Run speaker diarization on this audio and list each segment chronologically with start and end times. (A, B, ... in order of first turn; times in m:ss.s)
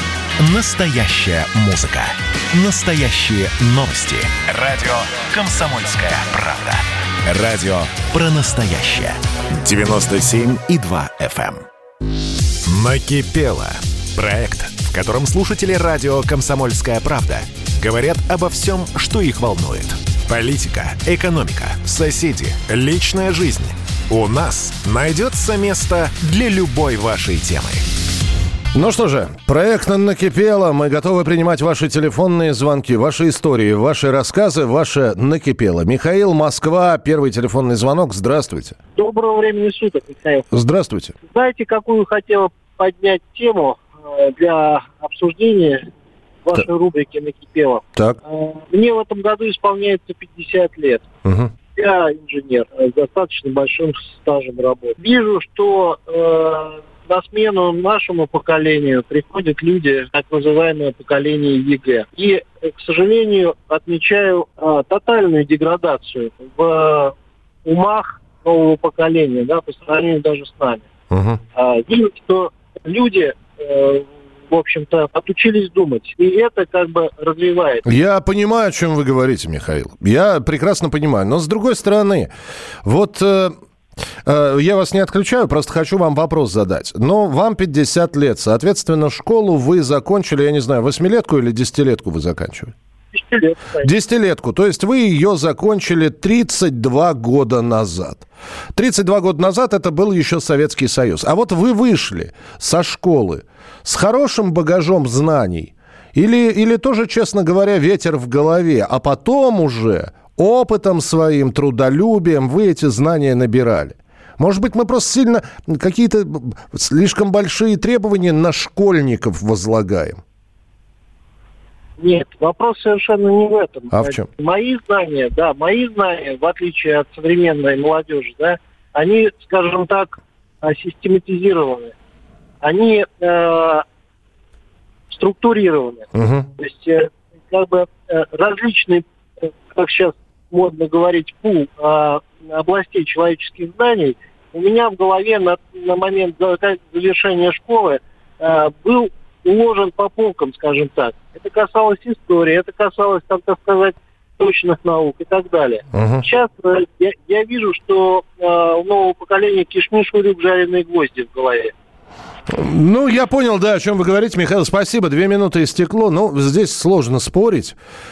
0:00.4-0:11.6 A
0:12.7-0:27.8 A
0:28.7-0:38.8 B
0:39.0-0:40.4 C
0:40.5-0:41.1 B
0:41.2-0:45.9 C
0:46.4-0:51.1 C
0:51.2-0:51.5 B
0:51.8-1:10.8 C
1:11.1-1:11.4 B
1:11.6-1:17.9 C
1:17.8-1:22.3 B
1:22.8-1:23.6 B
1:24.2-1:32.7 B
1:33.1-1:33.9 C
1:33.8-2:00.2 B
2:02.0-2:11.9 C
2:03.9-2:04.3 B
2:12.6-2:13.8 C
2:15.1-2:41.7 C
2:16.1-2:16.5 B
2:35.9-2:36.2 B
2:42.5-2:47.8 B